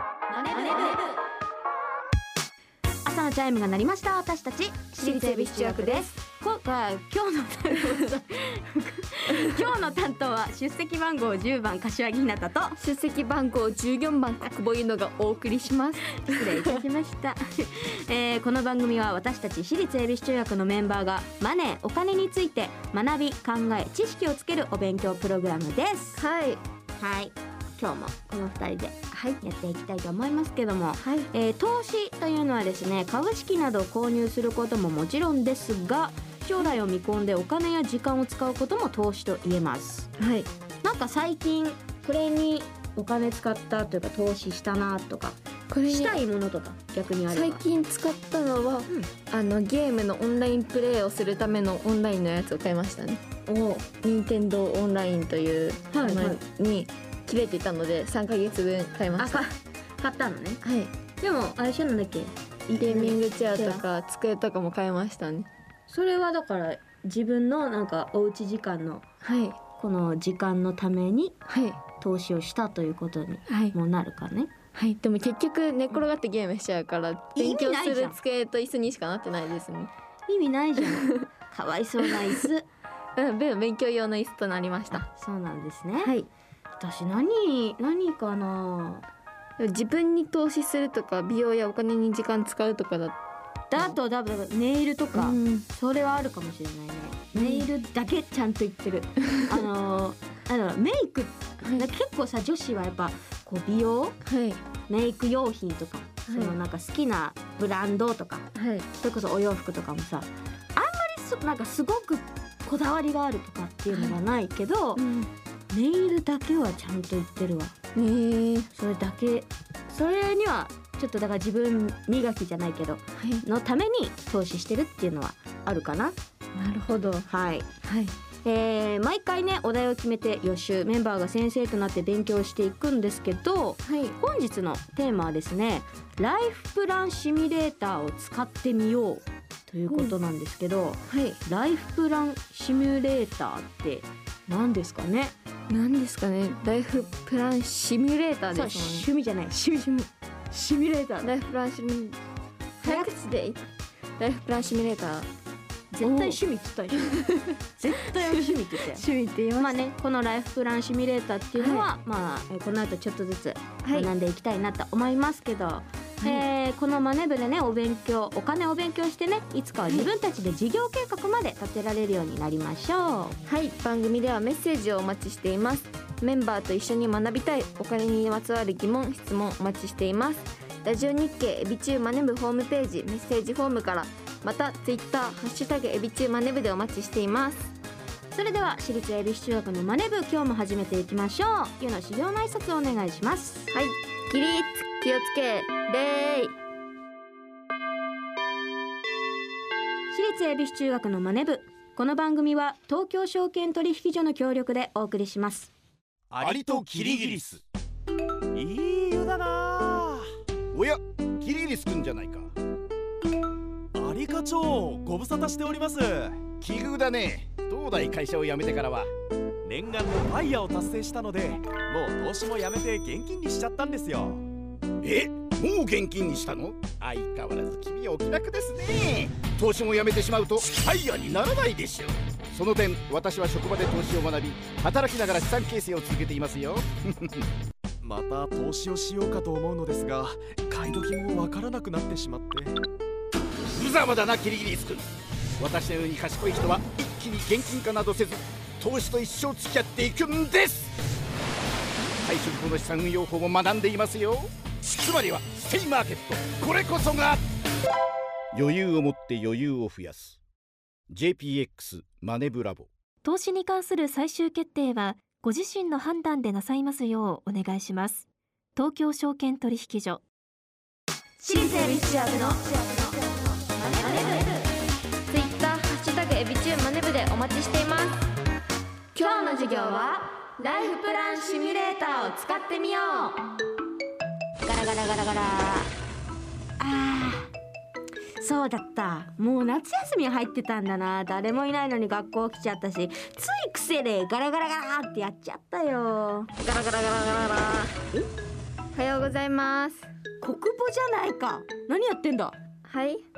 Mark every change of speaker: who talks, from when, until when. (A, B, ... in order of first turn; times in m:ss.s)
0:00.3-0:01.1 A
0:00.4-0:01.1 B
0:03.0-0:12.8 B
0:05.0-0:06.1 A
0:12.8-0:16.8 A
0:16.2-0:26.2 B
0:26.2-0:26.6 A
0:27.0-0:40.1 B
0:29.1-0:29.4 A
0:31.0-0:31.3 A
0:40.2-0:40.5 A
0:40.8-0:47.6 B
0:45.7-0:46.2 A
0:47.3-0:53.2 A
0:53.4-0:53.9 B
0:53.9-0:59.5 A
0:55.9-0:56.4 B
0:59.2-1:00.6 B
1:00.6-1:00.9 A
1:01.2-1:03.8 B
1:02.8-1:05.5 A
1:05.9-1:09.0 B
1:09.2-1:09.6 A
1:09.8-1:11.4 B
1:11.5-1:11.8 A
1:11.9-1:14.5 B
1:13.5-1:13.7 A
1:14.7-1:19.9 A
1:17.3-1:18.2 B
1:20.3-1:22.7 B
1:20.9-1:21.2 A
1:22.0-1:22.5 A
1:23.2-1:25.0 A
1:24.9-1:26.1 B
1:26.0-1:26.3 A
1:26.8-1:29.0 B
1:29.6-1:33.2 A
1:33.7-1:44.2 B
1:35.1-1:35.6 A
1:37.3-1:37.7 A
1:41.6-1:41.9 A
1:44.2-1:44.6 A
1:44.9-1:55.0 B
1:46.2-1:46.5 A
1:48.5-1:48.9 A
1:53.9-1:54.2 A
1:55.0-1:55.3 A
1:55.7-1:57.7 B
1:57.9-1:58.7 A
1:58.7-2:06.2 B
2:03.2-2:03.4 A
2:06.5-2:07.3 A
2:07.3-2:07.7 B
2:07.8-2:08.1 A
2:08.4-2:25.3 B
2:13.8-2:14.1 A
2:19.9-2:20.1 A
2:21.1-2:21.4 A
2:25.7-2:29.1 A
2:28.5-2:31.3 B
2:31.2-2:32.2 A
2:32.8-2:33.6 A
2:32.8-2:33.1 B
2:34.2-2:35.3 A
2:35.9-2:39.0 B
2:36.0-2:36.4 A
2:37.0-2:37.3 A
2:38.0-2:39.8 A
2:39.6-2:53.4 B
2:41.6-2:41.9 A
2:43.8-2:44.1 A
2:53.4-3:07.7 A
3:08.3-3:13.7 B
3:13.7-3:16.6 A
3:20.1-3:25.7 B
3:26.3-3:27.4 C
3:26.4-3:27.6 D
3:28.5-3:30.2 C
3:30.7-3:32.5 D
3:33.9-3:36.5 C
3:36.6-3:39.1 D
3:39.6-3:44.4 C
3:45.0-3:57.4 D
3:58.0-4:02.7 C
4:03.7-4:05.1 D
4:05.6-4:10.9 D
4:12.2-4:17.4 D
4:18.5-4:20.4 D
4:21.1-4:22.9 D
4:23.2-4:30.2 E
4:31.4-4:32.7 B
4:31.5-4:33.5 A
4:33.7-4:34.7 B
4:34.0-4:34.4 A
4:35.3-4:38.3 A
4:39.1-4:43.4 A
4:39.2-4:40.2 B
4:40.8-4:42.5 B
4:44.6-4:45.9 B
4:46.8-4:47.5 B
4:48.4-4:56.5 B
4:56.6-4:58.0 A
4:58.9-5:00.1 A
5:00.4-5:02.6 B
5:02.8-5:03.2 A